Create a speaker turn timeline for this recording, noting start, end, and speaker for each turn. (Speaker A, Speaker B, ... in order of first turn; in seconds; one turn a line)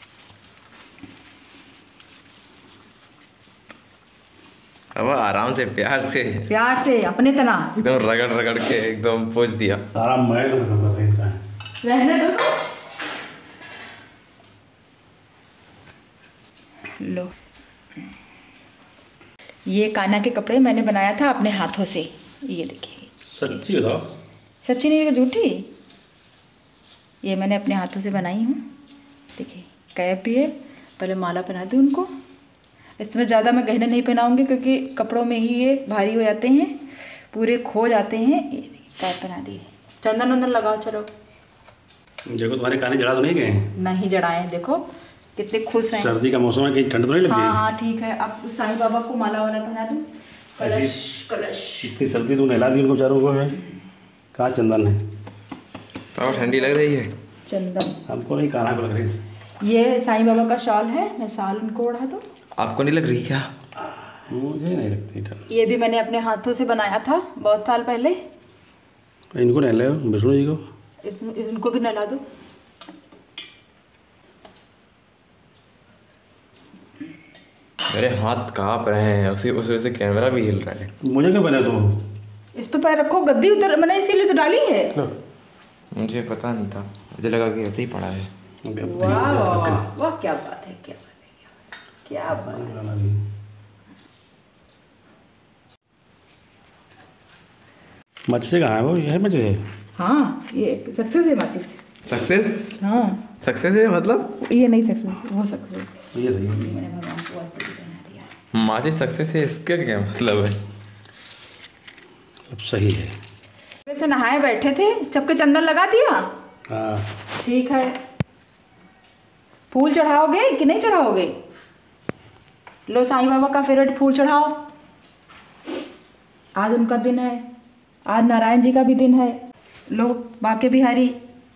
Speaker A: 5.0-6.5
Speaker B: 6.5-7.7
Speaker A: 7.8-9.8
Speaker C: 9.9-11.4
Speaker B: 11.8-12.6
Speaker B: 17.0-17.3
Speaker B: 19.7-23.6
Speaker C: 23.3-24.1
Speaker B: 24.6-25.7
Speaker B: 27.2-28.6
Speaker B: 29.4-32.1
Speaker B: 33.0-41.1
Speaker C: 42.3-43.7
Speaker B: 43.8-46.1
Speaker C: 46.0-47.6
Speaker B: 47.3-51.9
Speaker C: 50.6-51.0
Speaker C: 51.8-53.6
Speaker C: 54.3-55.0
Speaker A: 56.1-57.1
Speaker B: 56.3-56.8
Speaker B: 57.5-58.0
Speaker C: 58.1-59.2
Speaker B: 59.6-62.2
Speaker A: 62.6-63.5
Speaker C: 64.3-65.5
Speaker B: 65.5-68.2
Speaker C: 69.3-70.6
Speaker B: 71.0-72.2
Speaker A: 77.9-80.9
Speaker C: 81.0-82.0
Speaker B: 82.5-85.0
Speaker A: 85.9-88.3
Speaker C: 88.7-89.9
Speaker B: 88.8-91.5
Speaker B: 92.0-92.8
Speaker C: 92.3-93.2
Speaker C: 98.3-99.6
Speaker B: 100.0-101.8
Speaker A: 102.1-102.8
Speaker B: 102.8-103.3
Speaker A: 103.4-104.3
Speaker B: 104.4-108.3
Speaker C: 106.1-106.8
Speaker A: 108.5-110.6
Speaker C: 112.5-113.2
Speaker B: 113.8-116.3
Speaker C: 116.7-117.1
Speaker B: 117.4-118.0
Speaker B: 119.7-121.3
Speaker B: 122.9-124.6
Speaker B: 126.6-127.4
Speaker B: 128.1-129.4
Speaker B: 129.9-131.2